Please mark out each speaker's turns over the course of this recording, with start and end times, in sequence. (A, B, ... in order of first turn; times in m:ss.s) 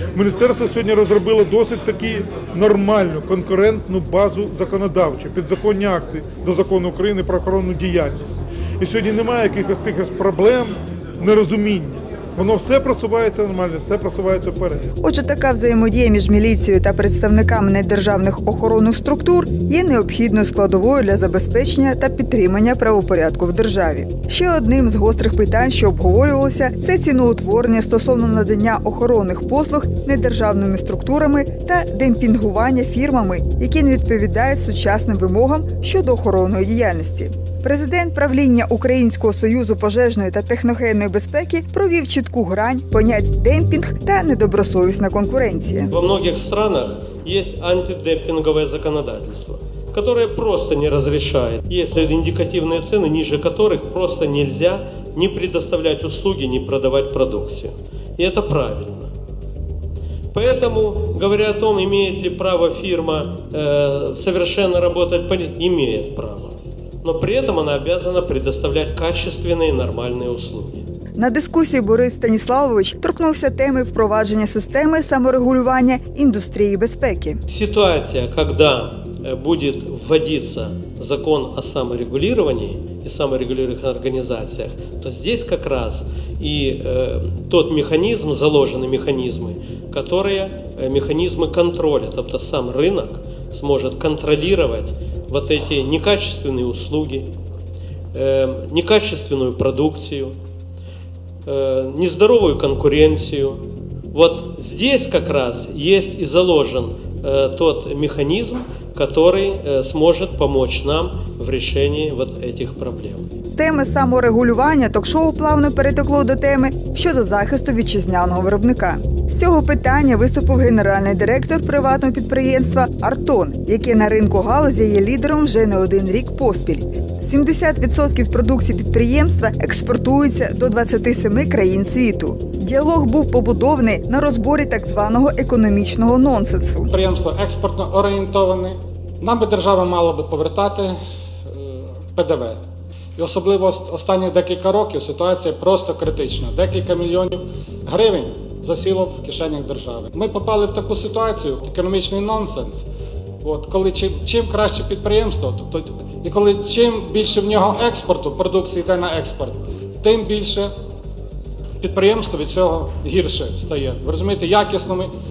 0:00.1-0:14.9 A
0:15.0-0:45.9 B
0:45.9-0:59.1 C
1:00.3-1:10.8 C
1:11.2-1:17.4 B
1:17.5-1:37.3 C
1:38.1-1:40.3 C
1:41.4-1:53.2 C
1:53.5-2:16.9 B
2:16.9-2:21.0 D
2:22.1-2:22.6 D
2:23.2-2:32.8 D
2:33.4-2:40.7 D
2:41.8-2:45.1 D